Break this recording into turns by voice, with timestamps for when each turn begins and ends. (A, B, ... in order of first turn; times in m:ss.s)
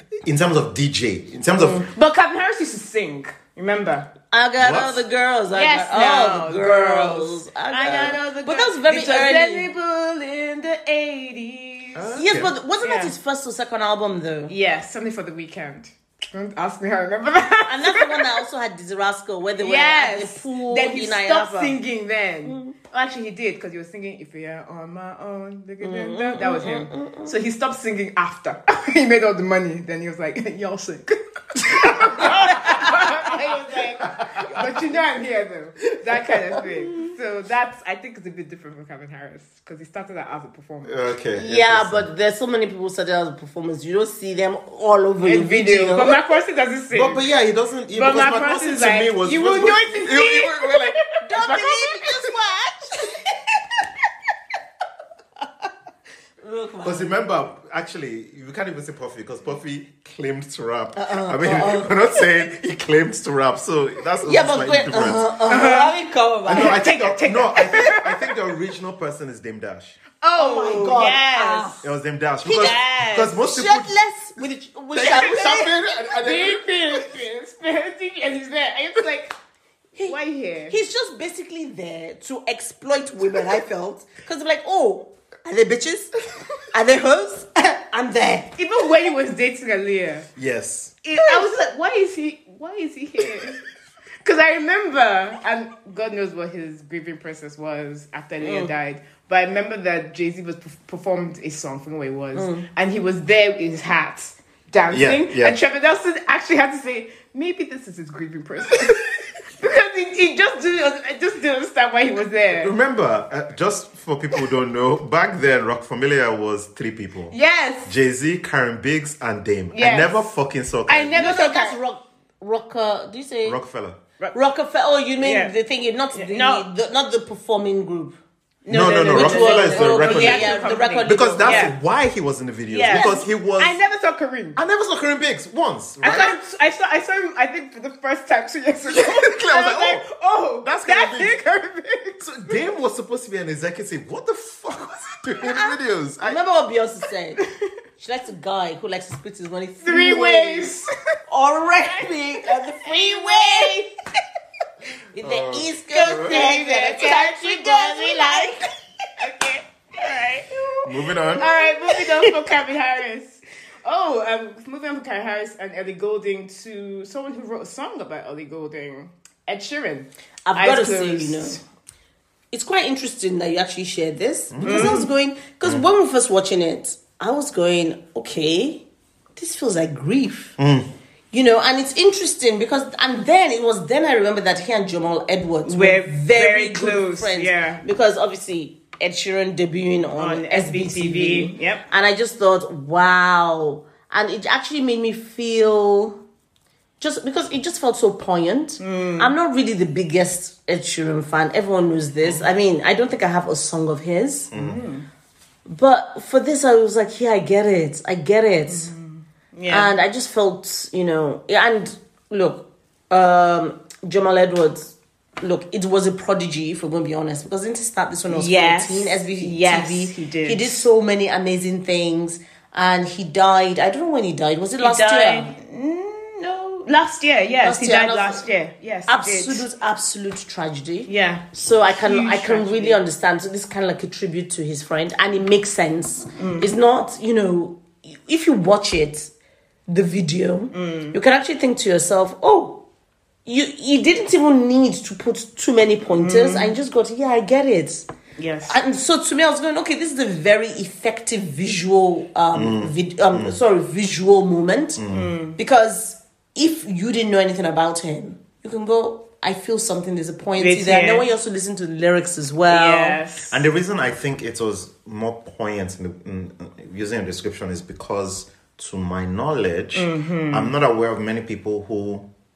0:00.2-0:01.8 A
0:01.5-0:01.8 B
0:01.6-0:04.1 C
0:04.3-0:09.7 B
0:04.6-0:05.0 A
0:05.5-0:12.0 C
0:11.9-0:12.5 A
0:12.1-0:14.5 B
0:12.8-0:13.1 C
0:14.5-0:18.4 C
0:17.6-0:21.8 B
0:19.6-0:41.1 C
0:22.4-0:22.7 B
0:25.8-0:27.4 B
0:31.8-0:32.3 A
0:32.2-0:33.0 B
0:34.2-0:35.0 A
0:40.8-0:42.1 A
0:41.3-0:46.2 B
0:45.2-0:47.3 C
0:46.9-0:51.8 A
0:47.9-0:51.7 C
0:51.2-0:53.1 B
0:56.4-0:57.1 B
0:56.8-1:05.2 A
1:01.0-1:01.9 B
1:04.2-1:06.8 B
1:05.5-1:05.9 C
1:06.5-1:10.0 A
1:06.5-1:08.3 C
1:10.2-1:11.8 C
1:10.3-1:11.9 B
1:11.8-1:13.9 A
1:12.4-1:12.8 B
1:12.4-1:13.4 C
1:13.3-1:15.7 B
1:14.9-1:17.0 A
1:15.0-1:19.3 C
1:20.0-1:20.8 C
1:20.7-1:26.1 B
1:26.7-1:28.5 B
1:28.6-1:30.3 C
1:30.4-1:30.9 A
1:31.0-1:33.6 C
1:34.2-1:52.7 C
1:38.4-1:38.7 B
1:42.3-1:42.6 B
1:44.9-1:45.6 A
1:52.5-2:01.2 A
1:57.3-1:57.9 C
1:59.7-2:00.3 C
2:00.9-2:01.8 C
2:01.1-2:03.6 B
2:03.4-2:04.0 A
2:04.3-2:08.2 B
2:05.2-2:05.5 C
2:06.1-2:06.7 C
2:08.6-2:11.8 C
2:08.7-2:13.8 A
2:09.1-2:11.7 B
2:12.7-2:14.6 C
2:12.9-2:13.2 B
2:14.6-2:16.3 A
2:16.0-2:22.6 C
2:18.9-2:20.0 A
2:20.6-2:21.3 A
2:22.2-2:26.4 A
2:26.2-2:27.4 B
2:28.0-2:30.7 B
2:29.8-2:30.8 C
2:31.3-2:33.8 B
2:31.8-2:33.9 C
2:35.1-2:38.7 B
2:35.2-2:36.4 A
2:35.9-2:38.6 C
2:39.2-2:51.6 C
2:40.8-2:41.5 A
2:41.6-2:42.3 B
2:50.4-2:51.6 B
2:52.5-2:58.8 B
2:54.5-2:55.0 A
2:54.6-2:55.1 C
2:59.4-3:00.6 B
3:00.6-3:00.9 A
3:01.3-3:16.2 B
3:05.6-3:07.8 C
3:10.2-3:11.8 C
3:17.0-3:24.5 B
3:18.8-3:19.3 C
3:24.5-3:24.8 A
3:24.5-3:25.1 C
3:25.6-3:28.9 B
3:28.7-3:29.9 C
3:29.7-3:45.5 B
3:38.3-3:40.8 C
3:44.8-3:49.7 C
3:47.6-3:48.4 B
3:49.1-3:59.3 B
3:51.1-3:53.0 C
3:56.4-3:56.7 C
3:59.9-4:02.8 B
4:00.7-4:01.2 C
4:03.4-4:08.0 B
4:06.1-4:06.7 C
4:08.4-4:08.8 C
4:08.7-4:15.0 B
4:12.5-4:13.6 A
4:15.0-4:15.3 A
4:15.1-4:15.6 C
4:15.6-4:23.2 B
4:20.6-4:21.2 C
4:22.7-4:23.6 C
4:23.5-4:32.3 A
4:29.9-4:30.7 C